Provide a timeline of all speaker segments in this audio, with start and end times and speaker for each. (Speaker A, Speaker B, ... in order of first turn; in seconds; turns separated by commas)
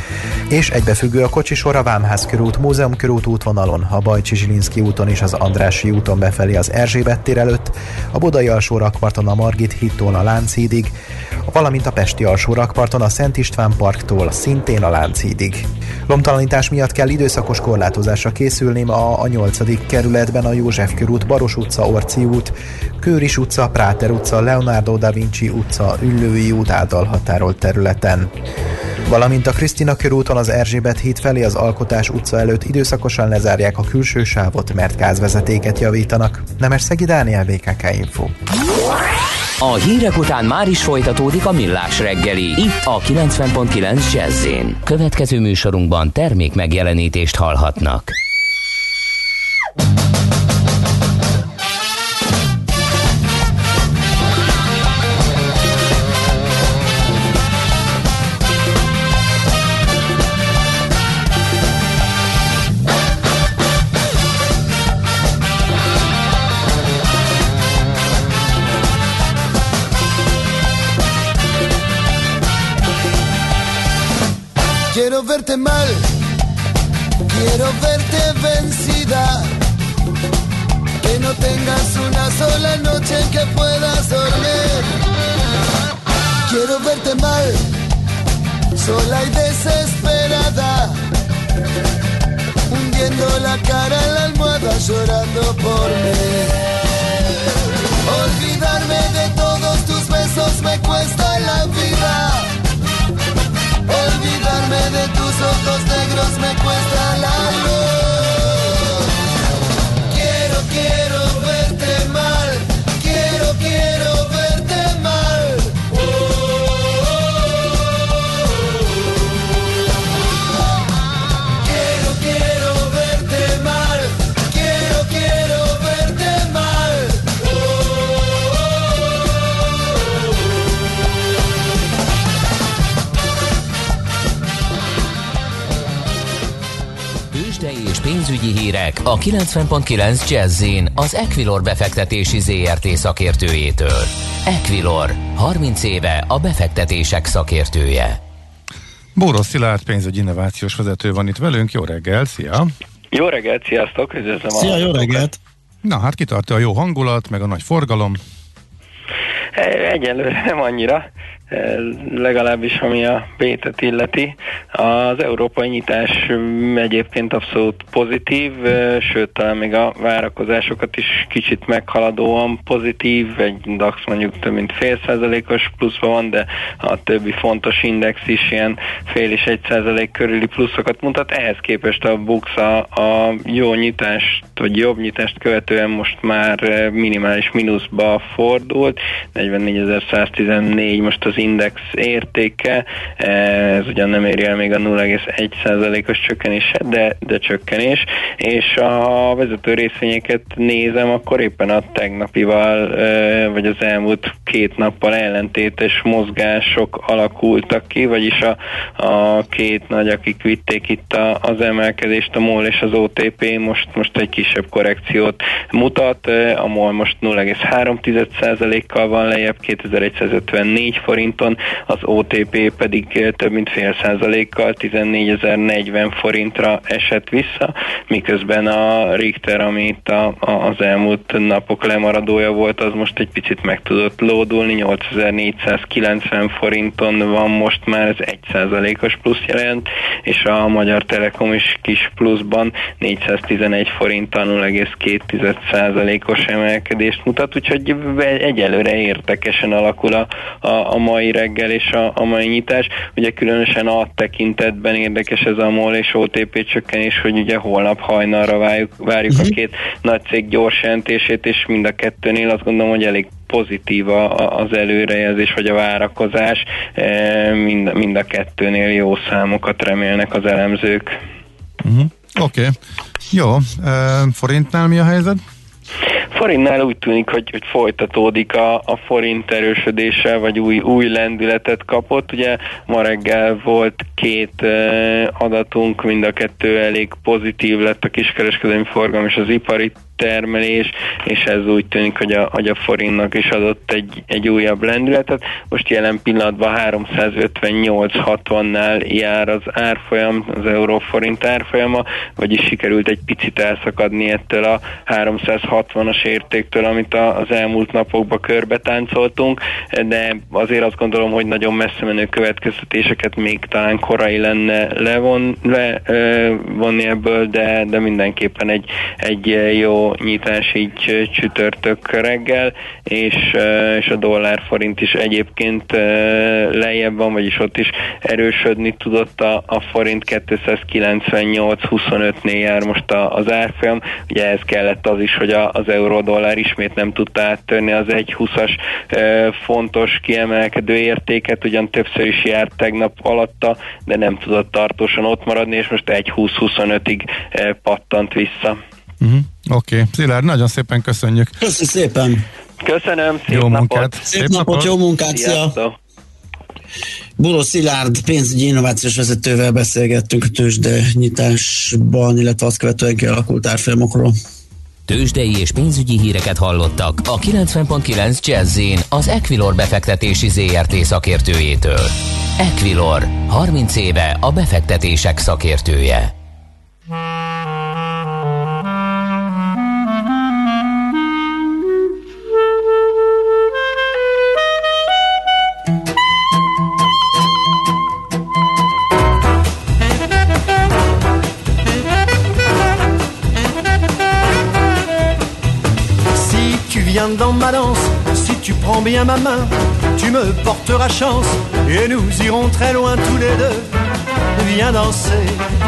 Speaker A: 0.5-10.9, Speaker A: 11.5-28.3, Speaker A: 29.1-38.3, Speaker B: 39.6-48.1, Speaker C: 74.9-76.0, Speaker C: 77.3-79.5, Speaker C: 81.0-84.9, Speaker C: 86.5-87.6, Speaker C: 88.8-90.9, Speaker C: 92.7-96.6, Speaker C: 98.1-102.5, Speaker C: 103.9-108.8, Speaker C: 110.1-117.1, Speaker C: 121.5-127.4, Speaker B: 137.3-148.2, Speaker D: 149.2-152.7, Speaker E: 153.1-155.3, Speaker F: 154.6-155.4, Speaker D: 155.8-158.2, Speaker E: 159.6-271.2, Speaker F: 259.3-259.5, Speaker D: 271.8-272.8, Speaker D: 273.3-275.4, Speaker E: 276.3-348.8, Speaker D: 349.2-351.6, Speaker F: 351.6-352.4, Speaker E: 352.8-354.2, Speaker D: 353.5-354.9, Speaker F: 354.3-355.8, Speaker E: 355.2-356.0, Speaker F: 357.4-364.3, Speaker B: 365.1-376.3, Speaker G: 396.4-403.9, Speaker G: 404.5-405.6